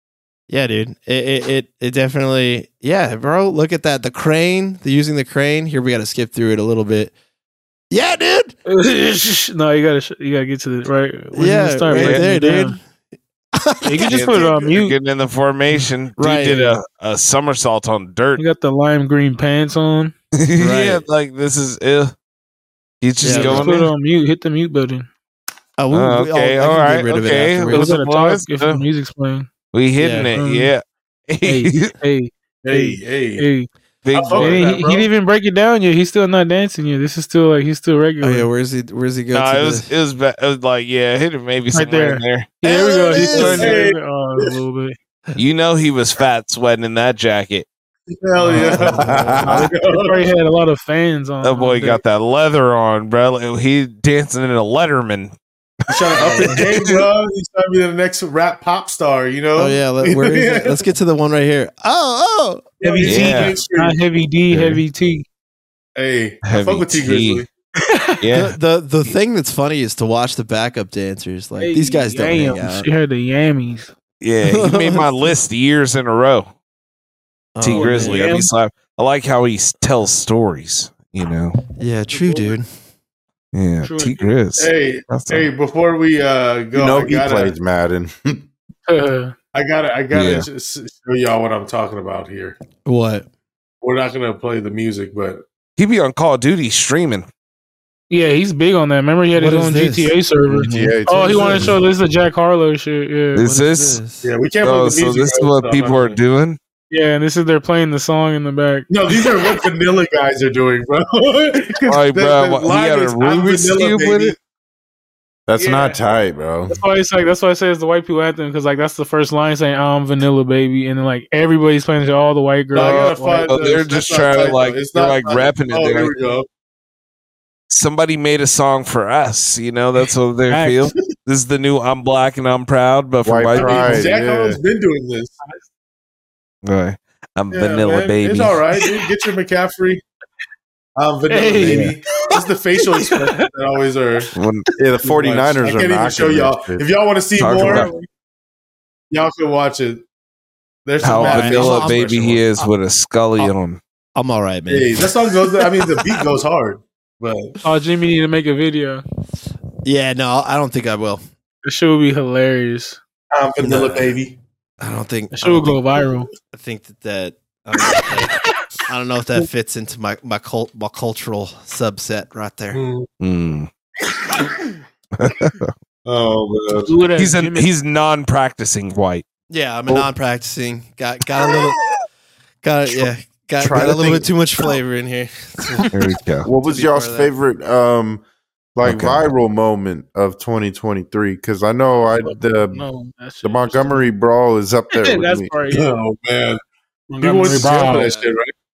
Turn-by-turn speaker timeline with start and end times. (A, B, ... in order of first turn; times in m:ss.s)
0:00.5-0:07.1 A
0:07.9-0:08.6 A
0:08.7-0:12.8 B
0:11.3-0:12.8 A
0:11.9-0:12.2 C
0:13.5-0:14.6 A
0:13.8-0:15.0 B
0:14.1-0:18.4 C
0:16.2-0:16.8 A
0:18.4-0:20.1 B
0:20.4-0:22.1 C
0:20.6-0:21.0 A
0:23.0-0:23.9 C
0:23.2-0:23.7 A
0:23.2-0:25.1 B
0:25.8-0:27.9 A
0:25.9-0:28.8 C
0:27.7-0:29.5 B
0:29.7-0:31.9 C
0:30.0-0:30.3 A
0:30.4-0:30.7 B
0:31.4-0:33.7 B
0:32.6-0:33.5 D
0:34.0-0:34.7 C
0:34.1-0:35.1 D
0:34.3-0:38.5 B
0:38.2-0:39.9 A
0:39.3-0:42.5 C
0:41.7-0:45.0 B
0:42.7-0:44.5 D
0:43.1-0:43.6 A
0:43.1-0:43.8 C
0:45.4-0:47.7 C
0:48.1-0:50.3 D
0:48.5-0:49.6 A
0:48.6-0:48.8 B
0:49.0-0:49.7 E
0:49.7-0:52.0 B
0:51.4-0:55.4 C
0:55.9-0:57.0 C
0:55.9-1:00.8 D
0:59.6-1:02.7 A
1:02.8-1:04.0 D
1:02.8-1:05.2 B
1:03.0-1:03.6 C
1:04.5-1:04.8 C
1:06.0-1:07.5 D
1:06.4-1:07.4 C
1:07.8-1:08.2 B
1:08.2-1:08.6 C
1:08.4-1:12.9 A
1:11.6-1:13.9 B
1:14.2-1:16.5 C
1:14.4-1:15.1 A
1:17.6-1:18.3 A
1:17.6-1:21.6 C
1:17.6-1:18.5 B
1:21.8-1:22.7 A
1:22.2-1:22.5 B
1:23.5-1:25.5 C
1:23.8-1:24.3 B
1:24.6-1:27.5 D
1:26.7-1:28.5 E
1:28.9-1:29.4 B
1:29.5-1:32.6 D
1:30.1-1:30.5 C
1:32.8-1:33.3 A
1:33.8-1:35.4 D
1:35.8-1:37.3 C
1:38.1-1:43.4 B
1:39.4-1:41.7 A
1:40.6-1:41.8 E
1:43.4-1:44.0 C
1:43.4-1:44.3 A
1:44.2-1:46.2 D
1:44.6-1:46.6 C
1:46.9-1:48.9 B
1:48.9-1:54.4 D
1:51.9-1:54.4 C
1:55.5-1:56.8 E
1:55.6-1:56.0 B
1:56.7-2:03.6 B
2:02.7-2:06.5 D
2:03.5-2:06.1 C
2:07.7-2:14.1 C
2:10.5-2:11.0 B
2:13.2-2:14.6 E
2:13.5-2:15.4 D
2:16.6-2:18.6 C
2:17.5-2:20.0 D
2:21.0-2:24.3 D
2:21.3-2:21.9 B
2:22.9-2:23.5 B
2:24.4-2:24.7 C
2:24.8-2:26.9 E
2:25.0-2:27.9 D
2:27.4-2:27.9 C
2:27.6-2:28.1 B
2:29.1-2:30.0 D
2:30.9-2:32.4 D
2:31.0-2:33.8 C
2:31.2-2:32.0 A
2:34.2-2:36.2 A
2:34.7-2:37.6 D
2:37.6-2:39.0 B
2:39.8-2:41.2 A
2:41.6-2:43.0 B
2:43.3-2:44.4 D
2:43.6-2:44.2 A
2:44.8-2:45.8 A
2:45.3-2:46.3 B
2:46.5-2:52.8 A
2:52.7-2:53.1 D
2:53.2-2:53.7 C
2:55.2-2:55.7 C
2:56.1-2:57.0 E
2:56.8-2:57.7 B
2:57.2-2:59.2 C
2:59.5-3:01.8 A
3:02.6-3:05.9 A
3:03.6-3:04.3 E
3:05.9-3:06.5 C
3:06.4-3:08.2 E
3:06.5-3:07.3 A
3:08.8-3:12.9 E
3:08.8-3:09.3 C
3:12.2-3:14.0 B
3:13.4-3:15.6 E
3:14.9-3:15.9 B
3:15.7-3:16.6 D
3:17.1-3:18.2 B
3:17.2-3:18.5 D
3:17.9-3:18.3 A